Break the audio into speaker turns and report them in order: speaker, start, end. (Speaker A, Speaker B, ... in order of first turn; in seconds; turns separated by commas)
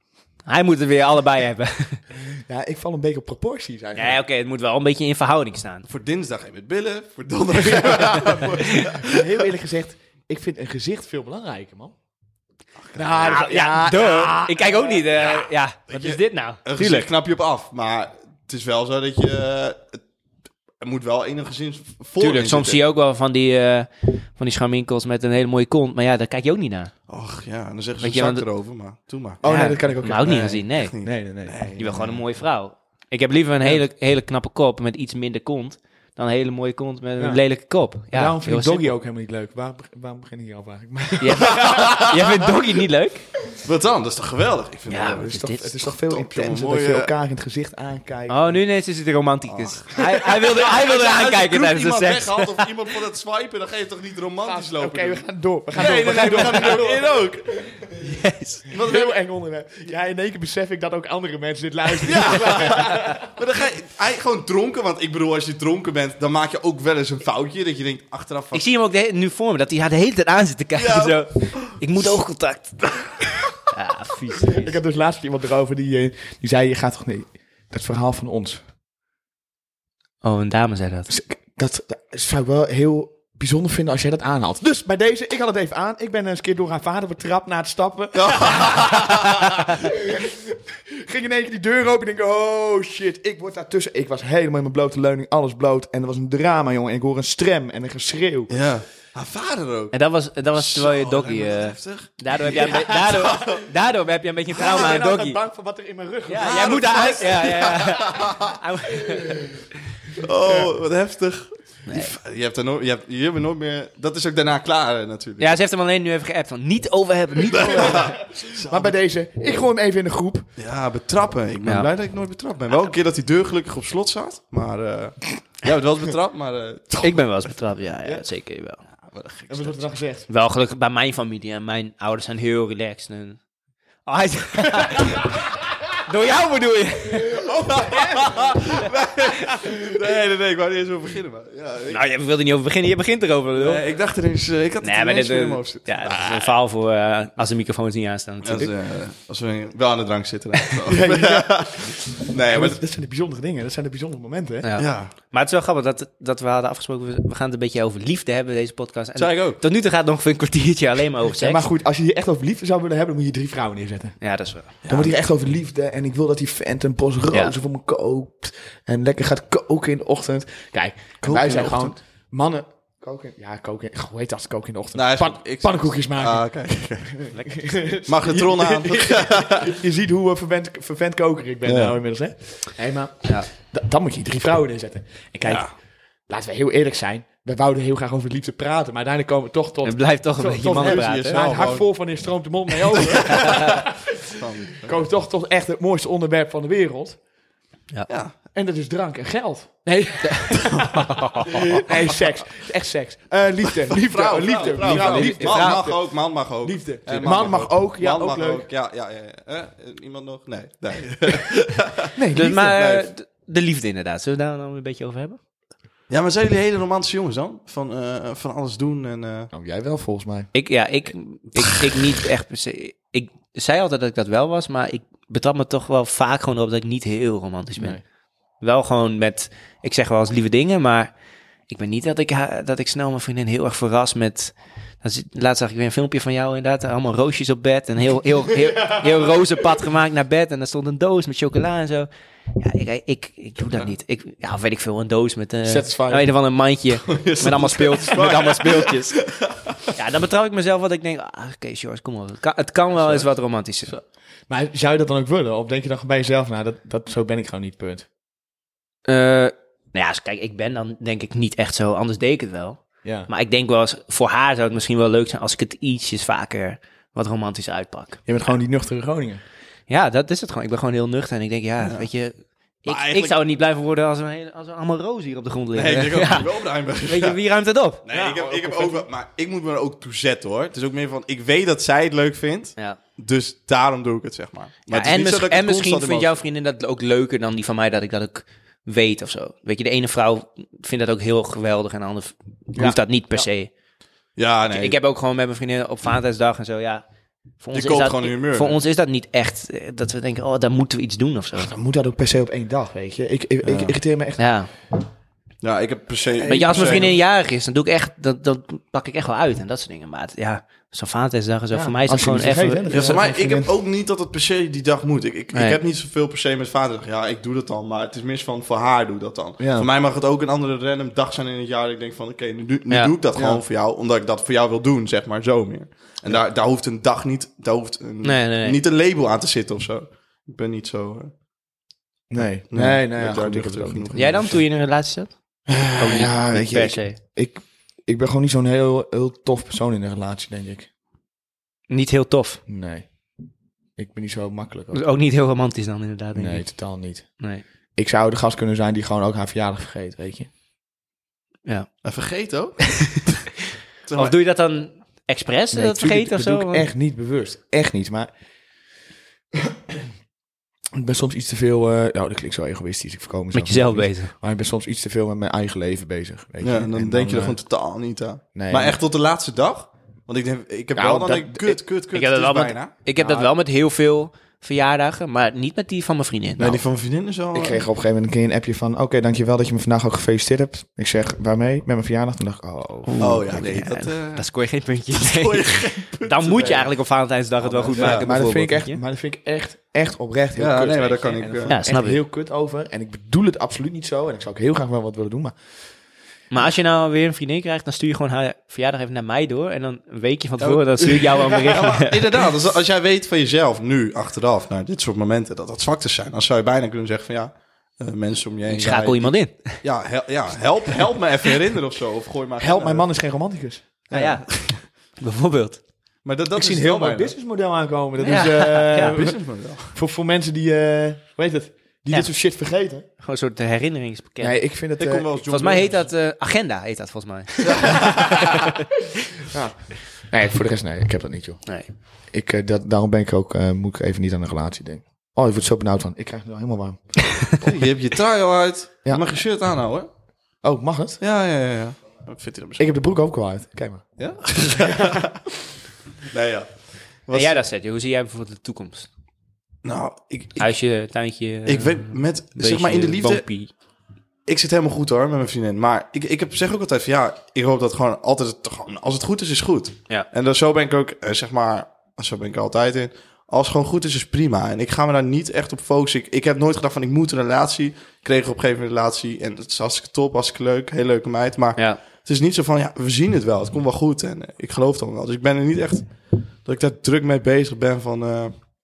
Speaker A: 0.5-2.0, Speaker B: 2.2-4.2, Speaker A: 4.0-5.9, Speaker C: 5.9-9.4, Speaker B: 7.6-11.9, Speaker C: 12.8-13.4, Speaker B: 12.9-15.1, Speaker A: 13.2-17.1, Speaker C: 15.2-20.0, Speaker C: 20.8-22.8, Speaker A: 22.2-26.9, Speaker C: 27.1-29.4, Speaker A: 28.0-28.4, Speaker B: 29.4-32.2, Speaker A: 29.4-30.9, Speaker C: 30.2-31.8, Speaker A: 31.8-38.9, Speaker B: 37.2-37.4, Speaker B: 38.1-42.0, Speaker A: 41.2-43.3, Speaker C: 41.6-42.1, Speaker C: 43.6-45.3, Speaker A: 44.9-45.7, Speaker B: 45.1-48.6, Speaker C: 45.9-47.1, Speaker A: 48.3-52.6, Speaker C: 49.5-57.5, Speaker B: 54.4-57.8, Speaker A: 58.0-58.6, Speaker C: 58.7-59.2, Speaker B: 58.7-63.3, Speaker C: 62.0-68.7, Speaker A: 68.5-73.1, Speaker C: 70.8-71.8, Speaker A: 73.7-74.8, Speaker B: 74.5-78.6, Speaker A: 80.2-81.1, Speaker B: 81.1-98.5, Speaker C: 88.1-89.5, Speaker C: 98.5-100.0, Speaker A: 99.9-105.4, Speaker C: 100.5-103.6, Speaker B: 102.5-103.3, Speaker B: 104.5-108.2, Speaker A: 106.3-109.5, Speaker C: 106.4-108.6, Speaker C: 110.2-115.5, Speaker A: 111.9-112.1, Speaker A: 115.4-118.1, Speaker C: 117.5-118.9, Speaker B: 117.7-120.5, Speaker C: 120.6-127.3, Speaker A: 121.6-121.9, Speaker A: 127.0-128.8, Speaker C: 129.1-129.9, Speaker B: 129.5-130.3, Speaker A: 130.3-133.4, Speaker A: 134.1-135.5, Speaker A: 136.0-137.4, Speaker B: 137.4-138.6, Speaker C: 137.5-142.0, Speaker A: 141.9-143.8, Speaker C: 143.6-146.5, Speaker A: 144.8-148.7, Speaker C: 148.4-152.8, Speaker B: 150.9-154.7, Speaker A: 154.6-161.6, Speaker C: 154.8-155.1, Speaker C: 159.2-159.6, Speaker B: 161.3-164.2, Speaker A: 164.2-164.7, Speaker C: 164.8-165.1, Speaker B: 164.9-176.5, Speaker C: 171.2-171.9, Speaker C: 174.9-177.3, Speaker B: 177.2-185.7, Speaker C: 178.0-179.8, Speaker C: 181.7-182.0, Speaker C: 185.5-185.7, Speaker B: 186.3-194.2, Speaker A: 189.8-191.4, Speaker C: 190.8-191.9, Speaker C: 192.9-195.0, Speaker B: 194.8-197.2, Speaker C: 198.1-198.3, Speaker B: 198.5-208.7, Speaker A: 200.2-201.8, Speaker C: 203.9-213.1, Speaker A: 204.6-205.8, Speaker B: 212.2-212.8, Speaker A: 212.3-215.4, Speaker C: 216.1-219.5, Speaker B: 219.5-220.5, Speaker A: 220.5-228.0, Speaker B: 227.8-228.0, Speaker A: 228.6-231.1, Speaker A: 231.7-249.2, Speaker B: 245.6-246.3, Speaker C: 247.1-249.9, Speaker A: 249.9-253.9, Speaker B: 254.5-258.1, Speaker A: 259.1-268.2, Speaker B: 263.0-263.3, Speaker B: 268.3-269.4, Speaker A: 269.9-278.0, Speaker C: 271.8-272.1, Speaker C: 272.9-273.4, Speaker C: 275.7-277.4, Speaker C: 278.0-286.4, Speaker B: 278.1-279.1, Speaker A: 284.9-293.7, Speaker C: 294.4-295.0, Speaker A: 294.7-297.1, Speaker A: 297.6-301.7, Speaker C: 297.7-298.8, Speaker B: 301.6-304.4, Speaker C: 303.6-303.9, Speaker A: 304.4-304.7, Speaker C: 305.6-307.2, Speaker B: 306.4-307.1, Speaker A: 306.4-313.1, Speaker B: 311.7-313.7, Speaker C: 312.9-331.3, Speaker A: 315.5-315.8, Speaker B: 319.6-319.9, Speaker B: 323.4-323.6, Speaker A: 328.2-328.8, Speaker B: 332.3-334.4, Speaker C: 332.4-334.6, Speaker A: 334.1-337.2, Speaker B: 335.7-340.9, Speaker A: 341.9-342.6, Speaker B: 342.7-343.1, Speaker B: 344.0-345.0, Speaker A: 344.9-346.7, Speaker B: 346.4-347.4, Speaker A: 347.4-347.6, Speaker B: 348.0-350.5, Speaker A: 351.7-351.9, Speaker C: 352.0-353.4, Speaker C: 354.1-354.4, Speaker A: 354.1-356.9, Speaker B: 355.7-358.3, Speaker B: 359.6-360.1, Speaker B: 360.9-367.6, Speaker A: 363.5-364.3, Speaker C: 366.6-372.9, Speaker B: 368.6-369.0, Speaker B: 370.9-371.8, Speaker A: 372.1-376.8, Speaker B: 373.2-373.5, Speaker C: 376.6-377.9, Speaker B: 377.5-383.7, Speaker A: 383.1-389.0, Speaker C: 383.2-384.5, Speaker C: 385.1-386.9, Speaker B: 387.6-395.6, Speaker C: 387.9-388.3, Speaker C: 390.6-391.8, Speaker A: 391.7-392.2, Speaker A: 396.5-402.3, Speaker C: 400.6-413.1, Speaker A: 408.7-409.8, Speaker B: 412.6-413.8, Speaker C: 414.1-414.8, Speaker A: 414.1-415.8, Speaker C: 416.2-417.3, Speaker B: 416.5-423.1, Speaker A: 418.2-419.1, Speaker C: 418.9-419.9, Speaker A: 423.2-424.6, Speaker B: 424.4-425.3, Speaker C: 425.0-426.1, Speaker A: 425.5-428.8, Speaker C: 427.6-428.7, Speaker B: 429.5-431.6, Speaker B: 432.3-437.9, Speaker C: 437.6-440.1, Speaker B: 440.6-441.2, Speaker C: 441.2-442.9, Speaker B: 442.8-444.2, Speaker C: 444.2-445.5, Speaker C: 446.2-447.6, Speaker A: 447.3-449.1, Speaker C: 449.8-450.7, Speaker A: 450.6-453.7, Speaker C: 451.7-453.5, Speaker C: 454.5-478.7